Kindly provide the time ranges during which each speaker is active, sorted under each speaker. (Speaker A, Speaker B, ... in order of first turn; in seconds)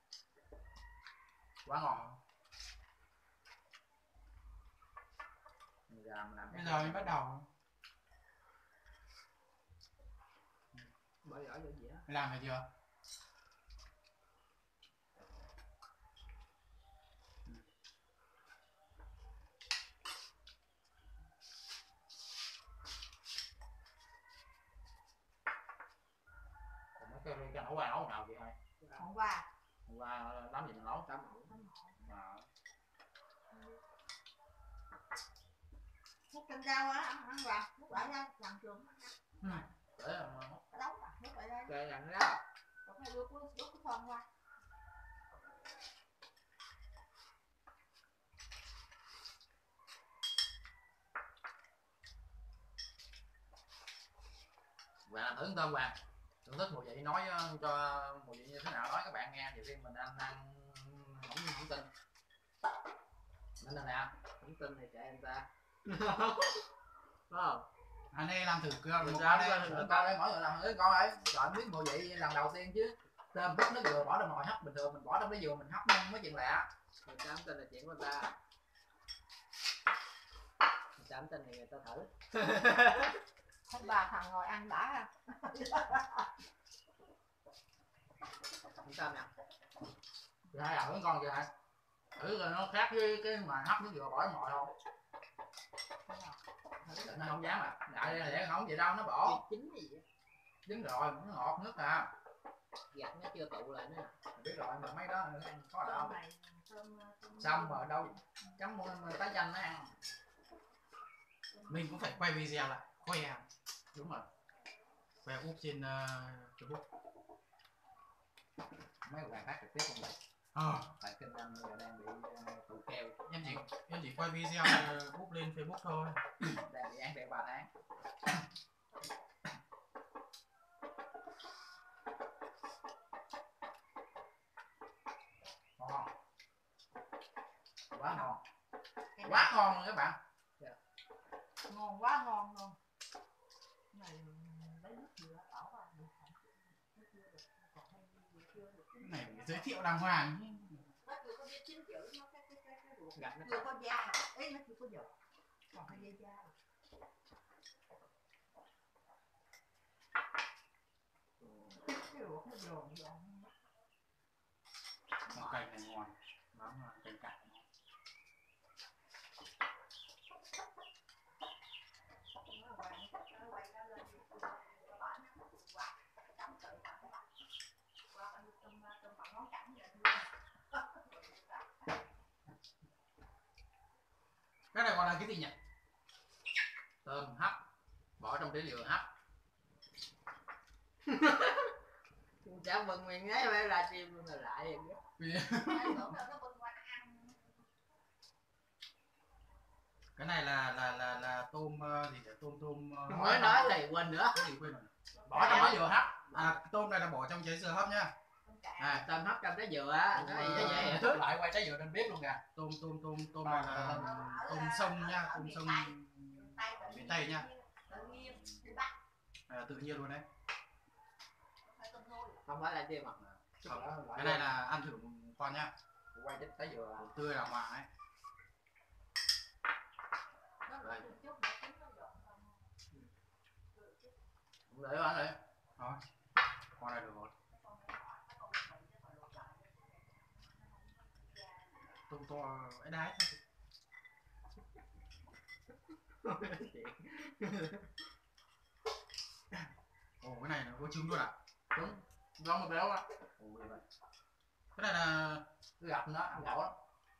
Speaker A: 1.6-2.0, 5.9-7.2, 27.0-28.6, 29.9-31.1, 32.0-32.5, 39.4-40.6, 55.1-61.9, 63.6-64.1, 69.1-76.7, 90.5-91.5, 92.2-94.7, 96.9-99.4, 100.7-102.1, 104.3-106.2, 107.4-109.9, 113.9-114.3, 119.0-120.2, 121.0-123.6, 126.5-127.7, 135.8-136.1, 137.9-138.4, 139.2-140.2, 187.0-187.6, 188.2-189.1, 205.3-206.2, 210.2-212.4, 213.4-214.2, 223.6-224.6, 226.1-227.1, 234.7-235.4, 251.7-253.6, 255.8-256.8
Speaker B: 6.5-7.5, 12.1-12.7, 68.1-69.7, 111.7-113.5, 115.2-116.8, 120.5-120.9, 123.3-126.2, 149.0-150.8, 165.3-167.6, 184.7-185.5, 195.2-196.2, 200.2-203.8, 204.3-204.9, 206.3-208.1, 208.8-209.1, 210.3-210.9, 212.6-217.5, 219.5-220.3, 223.2-225.7, 227.0-227.9, 235.8-236.0, 236.8-237.3, 242.1-243.4, 250.2-251.3, 254.8-255.4
Speaker C: 11.2-12.1, 28.8-29.1, 31.0-31.6, 41.6-42.4, 64.4-66.6, 67.3-67.7, 69.0-70.2, 77.0-78.3, 81.0-83.2, 88.8-89.3, 98.0-98.5, 99.2-100.0, 102.9-104.2, 153.2-153.7, 161.4-161.8, 191.1-191.7, 192.4-195.0, 203.1-204.5, 206.3-206.6, 208.8-211.2, 222.4-223.2, 246.2-247.8
Speaker D: 29.0-29.5, 31.5-32.1, 36.3-39.6, 40.7-41.7, 42.9-44.2, 83.7-86.2, 96.1-96.4, 97.0-97.3, 105.8-108.1, 111.5-112.2, 139.2-139.6, 141.7-142.8, 143.9-149.9, 151.0-155.1, 155.7-156.5, 161.8-163.5, 165.3-165.6, 172.5-177.2, 178.1-181.6, 195.6-197.5, 205.2-205.9, 208.4-209.0, 213.9-218.9, 221.7-222.4, 230.7-232.6, 233.8-234.1, 237.5-242.0